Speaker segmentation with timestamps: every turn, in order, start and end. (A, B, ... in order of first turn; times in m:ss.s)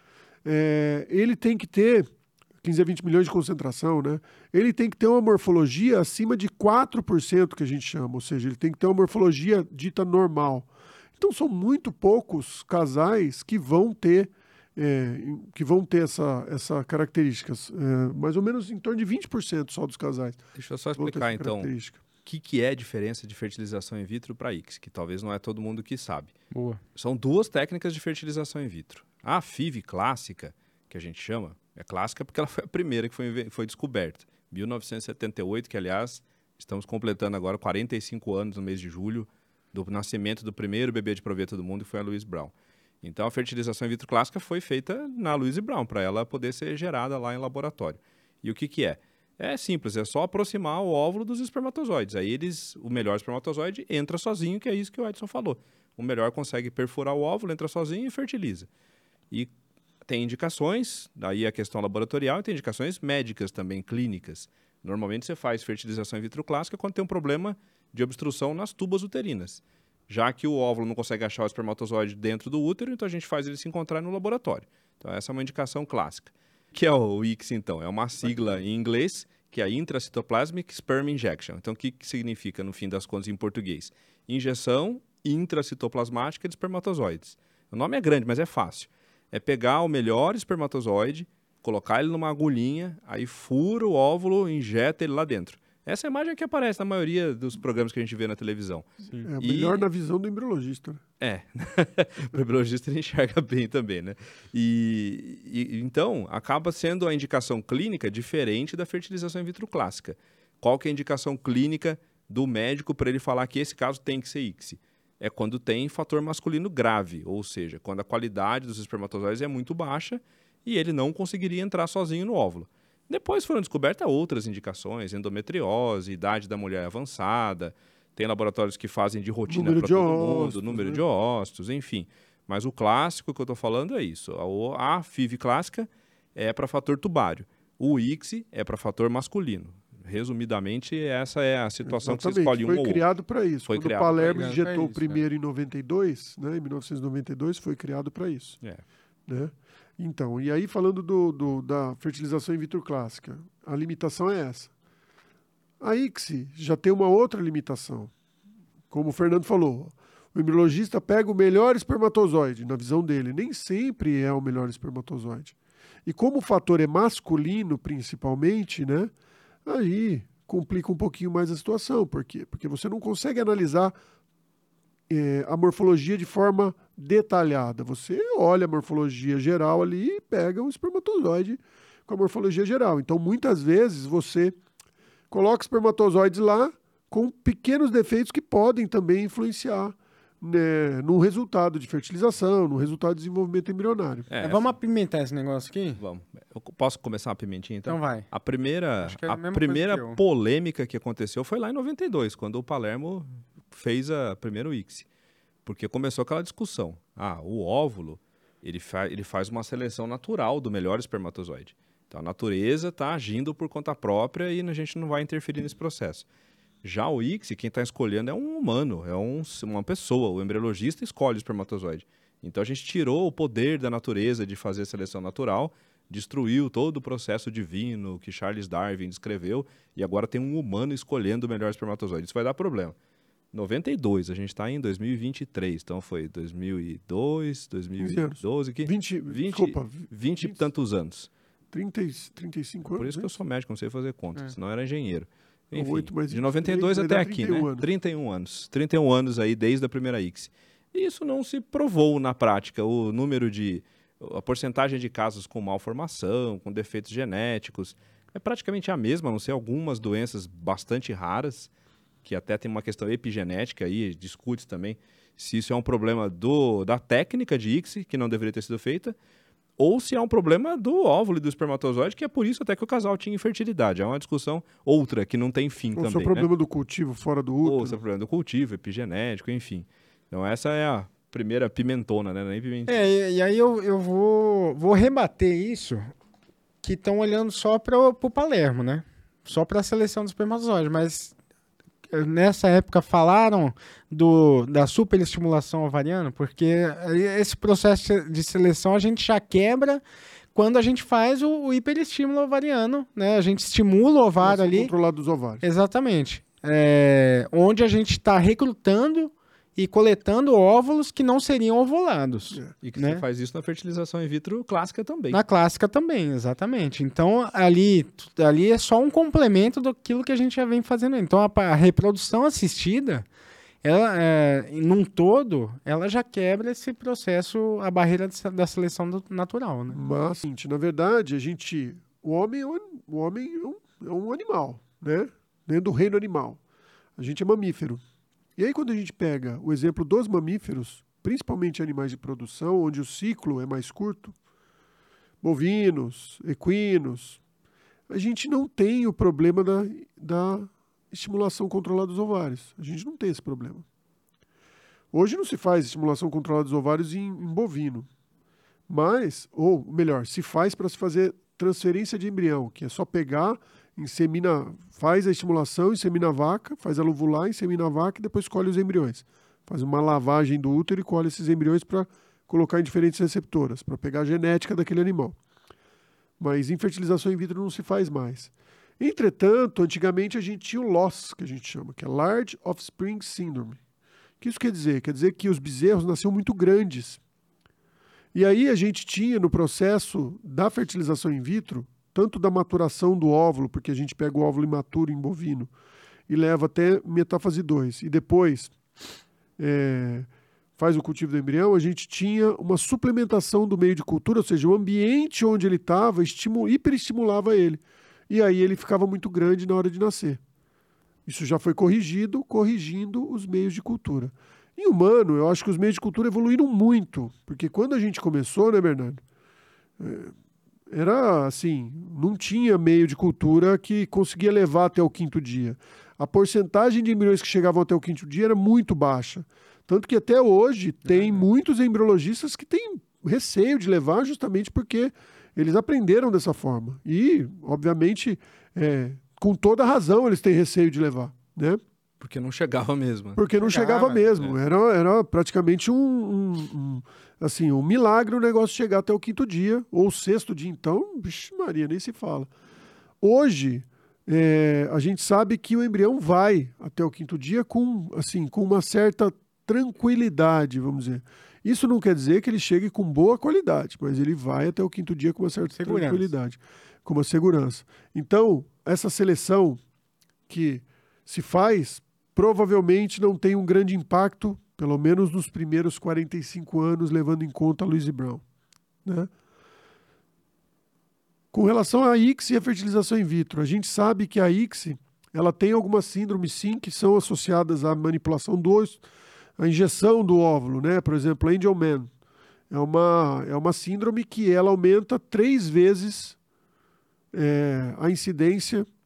0:00.4-0:02.1 A
0:02.6-0:20.4 A
0:20.6-0:21.7 B
0:21.0-0:22.0 A
0:22.2-0:26.3 B
0:26.5-0:26.8 C
0:26.9-0:58.7 B
1:00.0-1:38.9 B
1:39.2-1:41.0 A
1:39.4-1:39.8 B
1:41.2-2:23.0 B
2:09.5-2:11.0 A
2:21.8-2:28.6 A
2:23.6-2:24.6 B
2:24.3-2:25.0 C
2:29.3-2:34.7 A
2:35.8-2:38.1 A
2:38.9-2:45.5 A
2:46.0-2:49.1 A
2:49.6-2:53.9 A
2:55.1-3:04.5 A
3:05.3-3:14.3 A
3:14.3-3:14.7 B
3:14.4-3:16.0 C
3:16.0-3:25.0 B
3:17.9-3:18.2 C
3:19.0-3:20.2 C
3:25.6-3:36.2 B
3:36.8-3:52.9 B
3:53.5-4:01.3 B
3:58.0-4:00.6 A
4:01.7-4:03.3 A
4:03.0-4:21.7 B
4:05.7-4:07.8 A
4:22.2-4:29.2 B
4:29.8-4:36.5 B
4:35.9-4:38.0 A
4:37.6-4:43.1 B
4:42.9-4:46.1 C
4:46.8-4:51.3 C
4:52.1-5:00.0 C
5:00.5-5:04.9 C
5:04.4-5:05.6 A
5:05.6-5:13.2 C
5:12.8-5:15.4 B
5:15.3-5:23.2 C
5:23.8-5:30.0 C
5:29.9-5:36.6 A
5:37.2-5:38.0 A
5:38.6-5:44.3 A
5:45.4-5:47.4 A
5:48.1-5:53.8 A
5:55.1-5:58.1 A
5:58.9-6:15.4 A
6:16.4-6:23.8 A
6:24.4-6:27.2 A
6:28.3-6:35.7 A
6:36.3-6:38.7 A
6:39.6-6:50.4 A
6:51.2-6:59.2 A
7:00.0-7:00.3 A
7:00.9-7:21.8 A
7:22.2-7:23.4 B
7:23.4-7:32.5 A
7:23.6-7:24.2 C
7:24.2-7:24.6 B
7:33.2-7:49.8 A
7:45.7-7:46.3 C
7:50.5-7:58.4 A
7:59.0-7:59.3 A
8:01.5-8:09.0 A
8:09.6-8:12.1 A
8:12.7-8:16.4 A
8:17.3-8:18.9 A